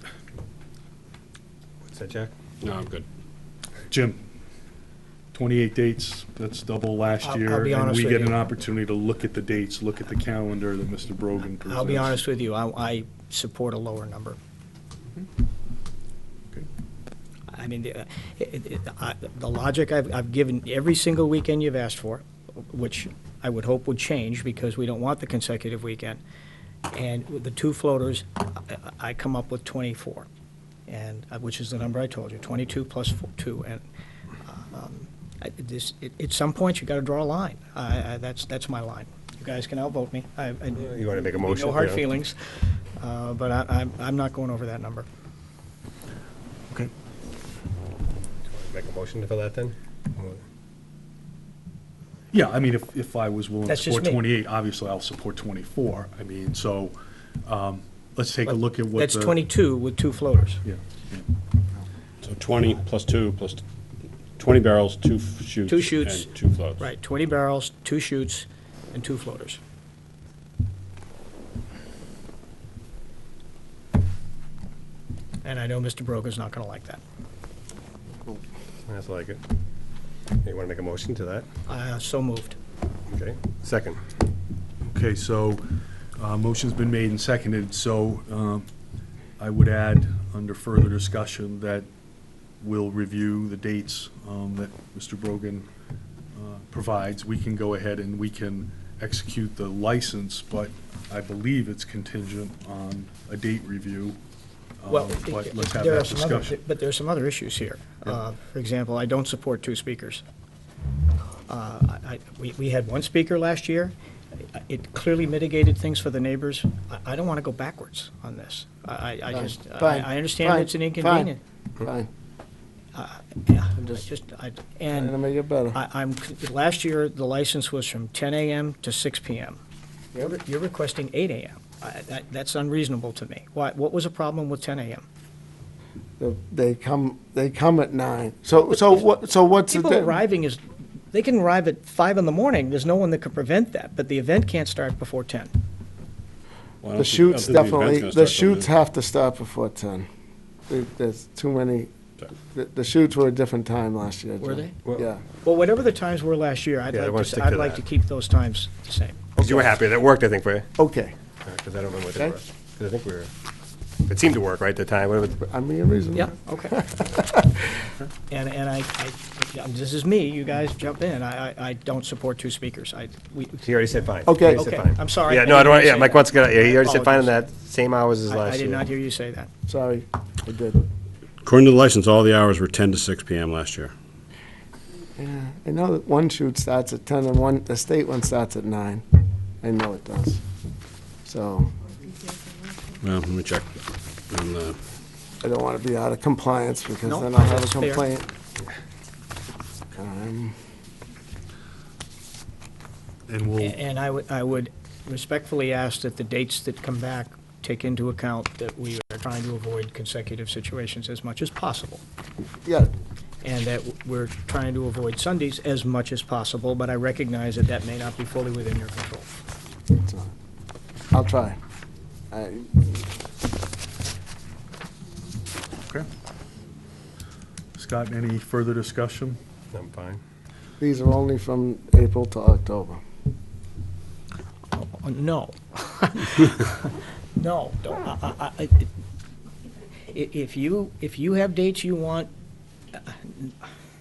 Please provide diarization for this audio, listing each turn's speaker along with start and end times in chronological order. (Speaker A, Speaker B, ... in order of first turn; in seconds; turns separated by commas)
Speaker A: 1.8-2.3, Speaker B: 2.6-3.0, Speaker C: 3.9-4.2, Speaker C: 5.3-12.2, Speaker D: 7.2-8.5, Speaker D: 11.6-14.4, Speaker D: 17.5-26.2, Speaker D: 26.9-30.3, Speaker D: 30.9-33.8, Speaker D: 34.4-42.4, Speaker A: 40.8-42.0, Speaker D: 43.0-45.1, Speaker A: 48.5-50.4, Speaker C: 52.3-59.4, Speaker D: 53.7-54.2, Speaker D: 58.9-60.6, Speaker C: 60.6-61.3, Speaker B: 62.2-63.6, Speaker B: 64.4-66.8, Speaker D: 65.7-69.6, Speaker D: 75.4-77.0, Speaker A: 78.9-79.4, Speaker A: 80.4-81.5, Speaker D: 81.7-82.6, Speaker A: 83.1-84.0, Speaker C: 84.9-85.6, Speaker C: 86.2-88.7, Speaker C: 89.4-91.9, Speaker C: 92.6-95.7, Speaker C: 96.3-104.2, Speaker C: 104.8-106.6, Speaker D: 104.9-110.2, Speaker D: 111.5-113.9, Speaker D: 114.5-121.4, Speaker E: 119.3-122.1, Speaker D: 122.9-125.2, Speaker E: 124.9-125.8, Speaker D: 125.7-129.6, Speaker D: 130.2-135.1, Speaker E: 136.2-140.2, Speaker D: 139.7-145.5, Speaker B: 146.8-148.7, Speaker E: 146.9-150.1, Speaker E: 150.7-151.9, Speaker E: 152.4-155.2, Speaker D: 154.4-154.8, Speaker D: 155.4-159.2, Speaker A: 156.9-157.8, Speaker E: 159.4-159.8, Speaker A: 159.4-160.7, Speaker E: 160.8-161.1, Speaker A: 161.4-163.3, Speaker A: 164.0-165.3, Speaker E: 165.3-167.8, Speaker D: 166.1-166.8, Speaker D: 168.3-173.6, Speaker A: 173.6-178.8, Speaker E: 174.2-174.7, Speaker D: 174.4-177.4, Speaker D: 178.2-179.5, Speaker E: 179.7-180.8, Speaker B: 181.4-183.9, Speaker E: 185.2-189.0, Speaker E: 189.6-190.4, Speaker E: 191.2-191.7, Speaker B: 193.0-194.8, Speaker E: 195.4-198.3, Speaker D: 197.0-198.1, Speaker E: 199.9-200.5, Speaker C: 203.3-203.8, Speaker D: 203.6-212.0, Speaker E: 212.6-212.9, Speaker D: 213.4-219.2, Speaker E: 219.9-220.3, Speaker E: 221.1-221.6, Speaker E: 222.3-223.0, Speaker C: 227.7-229.4, Speaker A: 229.7-230.2, Speaker E: 230.8-233.0, Speaker D: 234.7-238.9, Speaker D: 240.1-242.3, Speaker D: 242.9-243.6